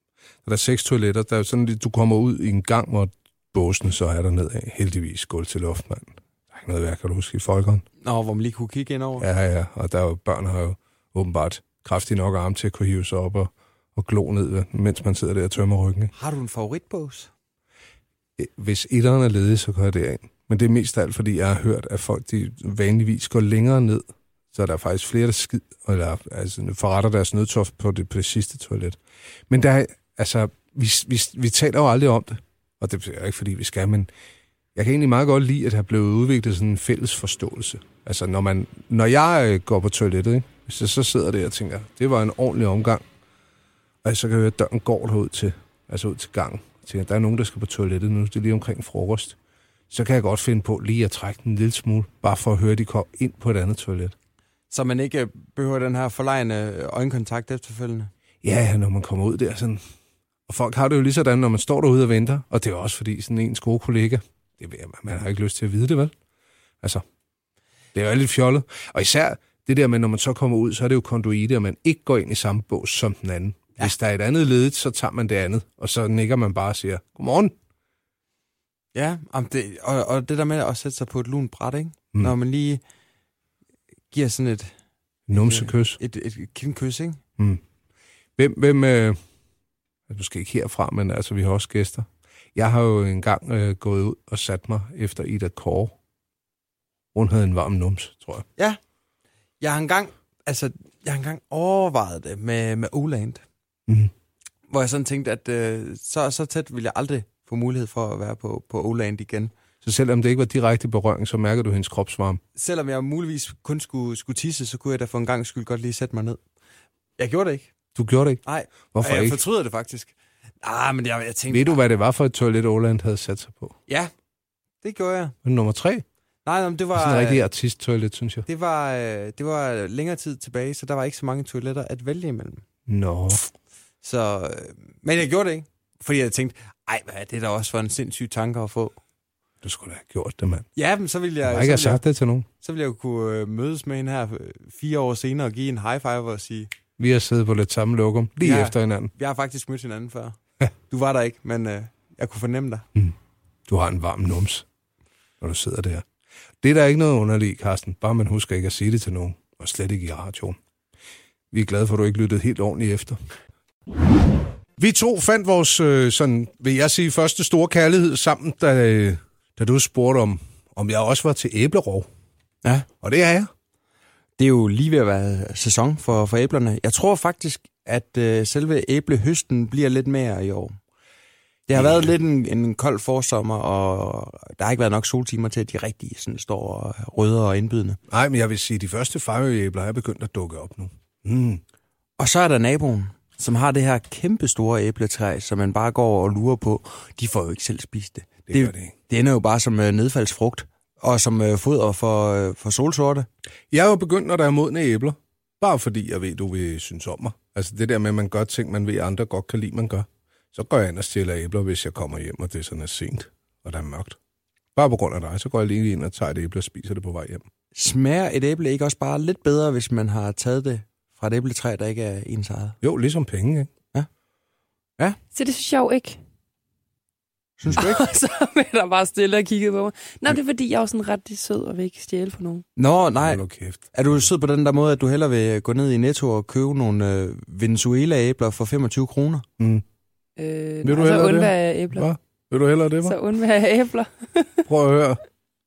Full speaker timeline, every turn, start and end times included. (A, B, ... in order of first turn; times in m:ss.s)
0:00.4-0:07.8 A
0:08.0-0:09.3 B
0:09.2-0:16.1 A
0:16.2-0:17.3 B
0:18.4-0:29.0 A
0:29.5-0:34.1 A
0:34.8-0:43.0 A
0:44.0-0:49.4 A
0:49.9-0:54.2 A
0:54.7-0:58.1 B
0:58.4-0:59.8 A
1:00.5-1:06.1 A
1:07.9-1:17.5 A
1:18.9-1:22.8 B
1:24.1-1:24.7 B
1:25.3-1:26.0 A
1:25.4-1:27.2 B
1:28.4-1:29.2 A
1:30.1-1:36.0 A
1:37.1-1:38.5 A
1:39.6-1:43.4 B
1:43.9-1:44.1 A
1:44.7-1:49.5 B
1:49.8-1:52.4 A
1:52.6-1:56.4 B
1:57.2-1:57.7 B
1:58.0-1:58.4 A
1:58.4-2:01.8 B
1:58.9-1:59.4 A
2:01.5-2:03.8 A
2:04.8-2:05.4 B
2:05.4-2:06.0 A
2:06.4-2:07.4 B
2:07.0-2:08.5 A
2:08.5-2:12.6 B
2:12.9-2:13.4 A
2:14.0-2:19.0 B
2:19.6-2:20.7 A
2:20.8-2:22.0 B
2:21.4-2:22.5 A
2:22.6-2:26.7 B
2:27.0-2:29.1 A
2:28.4-2:32.9 B
2:33.7-2:34.7 A
2:35.4-2:36.0 A
2:36.6-2:40.6 A
2:41.5-2:43.2 A
2:44.8-2:52.1 A
2:53.0-2:53.5 A
2:54.4-3:00.8 B
3:01.7-3:08.0 B
3:01.8-3:02.1 A
3:08.1-3:11.6 A
3:12.2-3:23.3 B
3:18.5-3:18.9 A
3:23.7-3:34.2 A
3:34.8-3:37.4 A
3:37.8-3:42.8 B
3:42.8-3:43.7 A
3:45.3-3:46.2 C
3:47.6-3:48.0 B
3:47.8-3:52.6 C
3:52.8-3:59.5 B
3:53.2-3:54.2 A
3:59.6-3:59.8 A
4:00.4-4:02.1 C
4:00.8-4:03.2 A
4:03.0-4:04.6 C
4:04.7-4:05.2 A